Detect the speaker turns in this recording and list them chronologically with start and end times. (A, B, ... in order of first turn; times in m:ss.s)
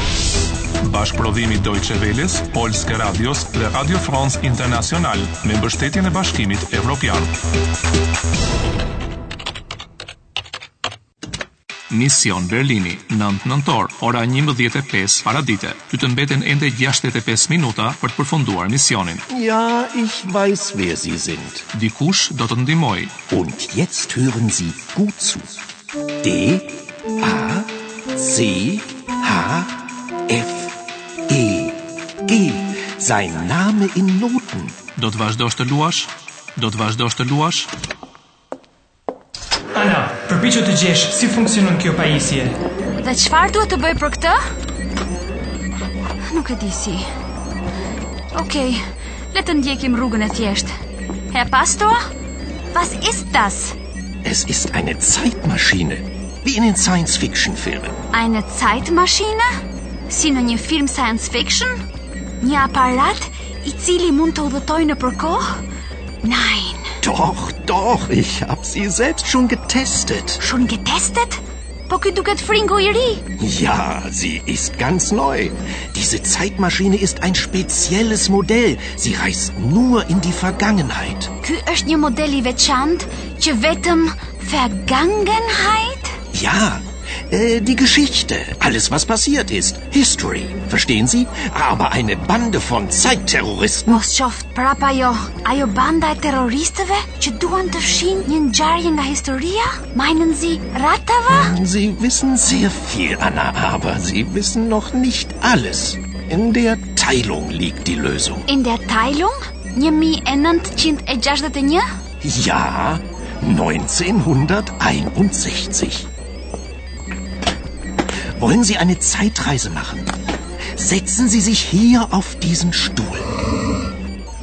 0:00.8-0:07.3 A
0:11.9-0:19.2 A
0:19.3-0:21.6 B
0:21.7-0:23.1 A
0:23.3-0:25.6 B
0:26.2-0:30.8 B
0:31.3-0:34.7 B
0:35.0-0:37.7 A
0:39.7-0:42.6 C
0:43.0-0:44.4 D
0:46.3-0:47.0 D
0:48.3-0:48.8 D
0:49.3-0:50.7 D
0:51.3-0:52.0 D
0:52.7-0:53.8 D
0:54.2-0:58.0 B
0:58.1-0:59.4 D
1:00.1-1:01.8 D
1:02.4-1:05.6 D
1:06.2-1:07.0 D
1:07.0-1:10.4 B
1:10.4-1:13.2 D
1:13.4-1:21.3 B
1:21.4-1:26.2 D
1:26.3-1:34.0 B
1:33.9-1:41.5 D
1:41.3-1:48.5 B
1:48.5-1:51.8 D
1:52.2-1:56.1 B
1:58.4-2:00.1 B
2:00.7-2:03.3 B